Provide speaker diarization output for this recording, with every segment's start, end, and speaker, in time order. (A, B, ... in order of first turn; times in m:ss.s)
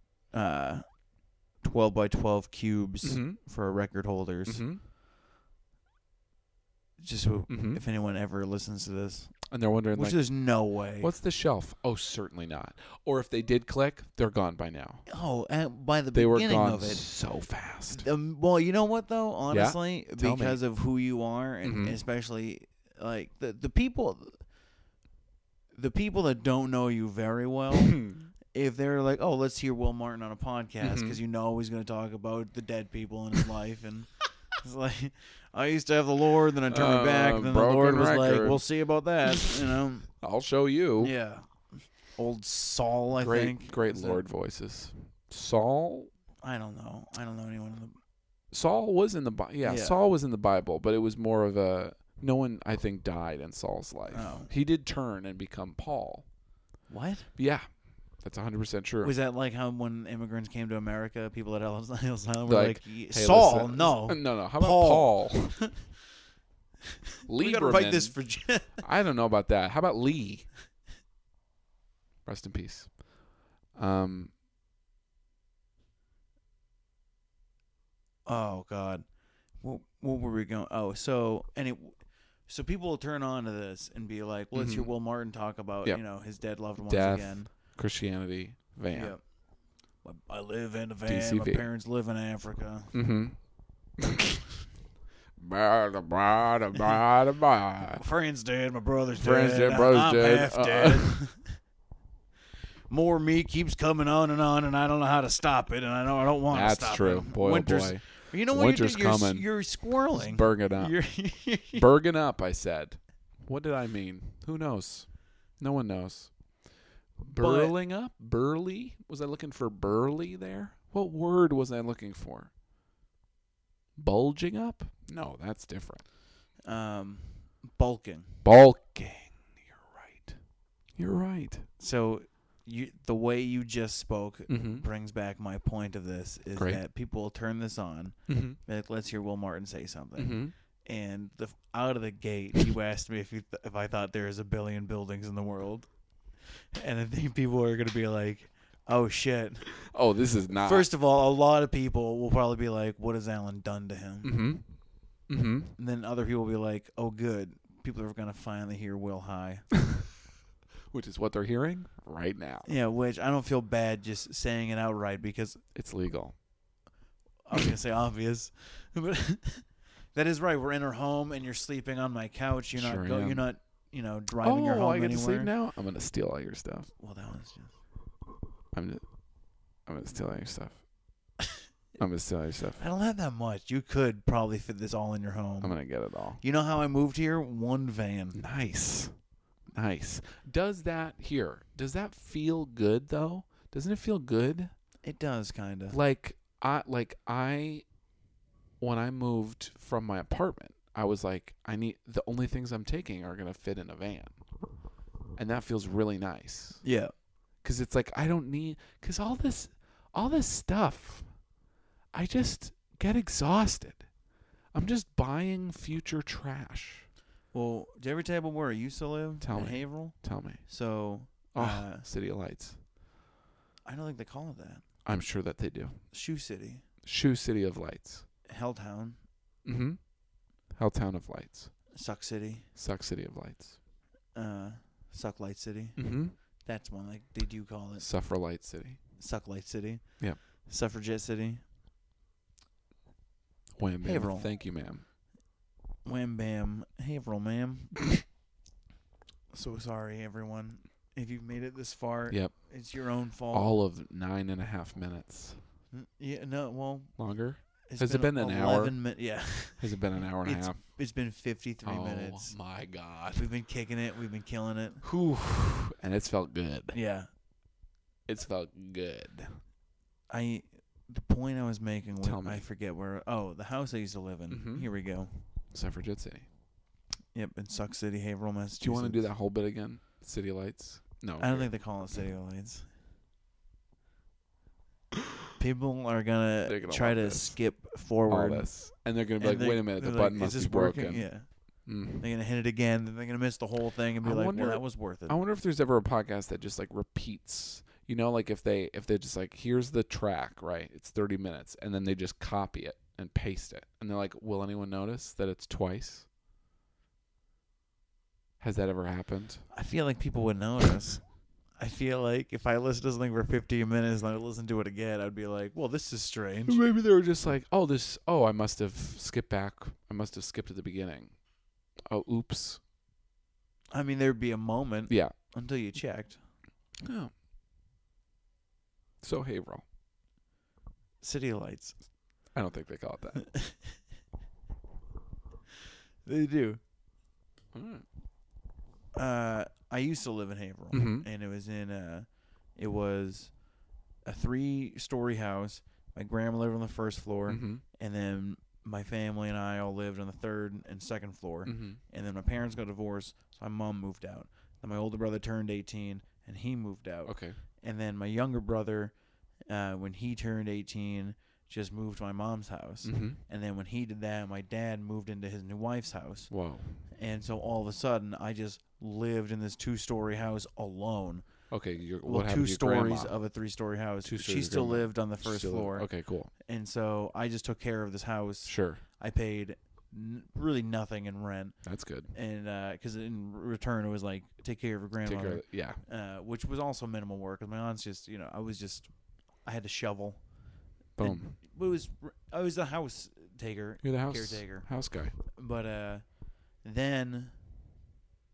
0:00.3-0:00.8 A
0:01.6-0:04.6 A
0:03.0-0:03.4 B
0:04.5-0:04.8 B
0:07.0-0:11.1 A
0:07.5-0:07.8 B
0:09.5-0:10.2 B
0:11.0-0:15.1 B
0:15.1-0:17.1 A
0:16.1-0:18.1 B
0:17.9-0:24.4 A
0:19.5-0:20.6 B
0:21.6-0:22.0 B
0:25.7-0:40.1 A
0:27.9-0:28.3 B
0:30.8-0:31.2 B
0:36.7-0:38.6 B
0:39.3-0:41.1 B
0:41.0-0:44.2 A
0:43.2-0:46.1 B
0:46.4-0:48.0 A
0:48.5-0:56.2 B
0:49.6-0:50.0 A
0:54.1-0:54.5 A
0:56.9-0:57.3 A
0:57.4-0:59.1 B
0:59.0-1:05.7 A
1:02.5-1:05.6 B
1:07.3-1:08.8 A
1:07.3-1:10.5 B
1:12.2-1:13.0 B
1:13.7-1:14.3 B
1:18.3-1:19.1 A
1:19.6-1:27.5 A
1:24.5-1:24.9 B
1:26.8-1:29.2 B
1:28.9-1:29.2 A
1:30.0-1:32.9 A
1:31.1-1:31.7 B
1:32.9-1:33.4 B
1:34.0-1:34.4 B
1:35.4-1:38.0 B
1:37.9-1:41.6 A
1:39.2-1:41.2 B
1:42.9-1:51.9 A
1:46.5-1:49.5 B
1:50.1-1:51.0 B
1:51.7-1:56.3 B
1:57.2-1:57.7 A
1:57.2-2:02.5 B
2:04.0-2:06.0 B
2:06.7-2:08.4 A
2:08.4-2:10.4 B
2:11.0-2:11.7 B
2:11.8-2:25.9 A
2:14.5-2:14.9 B
2:16.6-2:16.8 B
2:18.3-2:18.6 B
2:20.2-2:20.5 B
2:26.7-2:29.9 A
2:29.8-2:30.9 B
2:30.5-2:34.4 A
2:34.2-2:34.7 B
2:35.3-2:35.7 B
2:35.8-2:39.7 A
2:40.9-2:42.7 B
2:42.7-2:45.6 A
2:45.8-2:46.4 B
2:47.5-2:55.5 A
2:52.7-2:53.4 B
2:54.4-2:56.9 B
2:57.0-2:57.8 A
2:58.7-2:59.0 B
2:59.9-3:00.8 B
3:02.0-3:02.8 B
3:02.8-3:05.8 A
3:05.6-3:06.4 B
3:06.4-3:08.4 A
3:08.3-3:09.2 B
3:09.7-3:14.7 B
3:15.0-3:16.0 A
3:15.9-3:17.8 B
3:18.8-3:24.4 B
3:25.4-3:26.8 B
3:26.8-3:27.1 A
3:27.6-3:31.3 B
3:32.1-3:34.1 B
3:34.7-3:37.1 B
3:37.5-3:42.0 A
3:39.4-3:40.6 B
3:41.5-3:42.8 B
3:43.9-3:44.8 A
3:45.0-3:46.0 B
3:46.1-3:46.8 A
3:47.0-3:48.2 B
3:48.5-3:49.2 A
3:49.6-3:50.0 B
3:50.7-3:51.7 B
3:51.9-3:52.7 A
3:52.8-3:53.8 B
3:54.3-3:58.1 A
3:56.0-3:56.4 B
3:58.0-3:59.0 B
3:59.2-4:01.6 A
4:03.8-4:05.0 B
4:04.0-4:04.5 A
4:06.0-4:08.1 A
4:09.5-4:13.7 A
4:12.3-4:12.6 B
4:13.5-4:15.6 B
4:15.9-4:17.2 A
4:17.2-4:19.0 B
4:17.8-4:22.6 A
4:19.8-4:20.8 B
4:21.8-4:23.5 B
4:23.4-4:25.0 A
4:25.0-4:27.0 B
4:26.9-4:27.3 A
4:28.3-4:29.6 B
4:30.3-4:35.3 A
4:32.2-4:32.6 B
4:34.5-4:34.9 B
4:35.7-4:36.5 B
4:37.3-4:39.3 A
4:38.8-4:41.7 B
4:41.4-4:42.9 A
4:45.6-4:48.8 A
4:46.6-4:47.6 B
4:48.3-4:51.3 B
4:49.4-4:55.4 A
4:51.8-4:52.3 B
4:54.2-5:06.3 B
5:08.6-5:09.7 B
5:09.7-5:16.8 A
5:16.7-5:21.4 B
5:22.1-5:22.8 B
5:23.9-5:26.4 A
5:25.1-5:25.3 B
5:27.0-5:27.3 B
5:29.2-5:29.8 B
5:31.2-5:32.0 A
5:32.5-5:33.5 B
5:33.4-5:33.9 A
5:36.2-5:36.8 A
5:37.7-5:38.1 B
5:39.1-5:43.6 A
5:40.9-5:41.3 B
5:44.2-5:59.2 A
5:47.5-5:47.8 B
5:51.7-5:52.0 B
5:57.3-5:57.6 B
5:59.7-6:06.5 A
6:03.0-6:03.4 B
6:06.5-6:07.0 B
6:07.0-6:11.5 A
6:11.7-6:13.4 B
6:12.2-6:16.1 A
6:14.2-6:16.5 B
6:16.6-6:21.8 A
6:18.6-6:19.0 B
6:21.8-6:22.3 B
6:22.3-6:30.5 A
6:25.2-6:26.0 B
6:31.2-6:31.6 B
6:31.2-6:37.5 A
6:34.0-6:35.3 B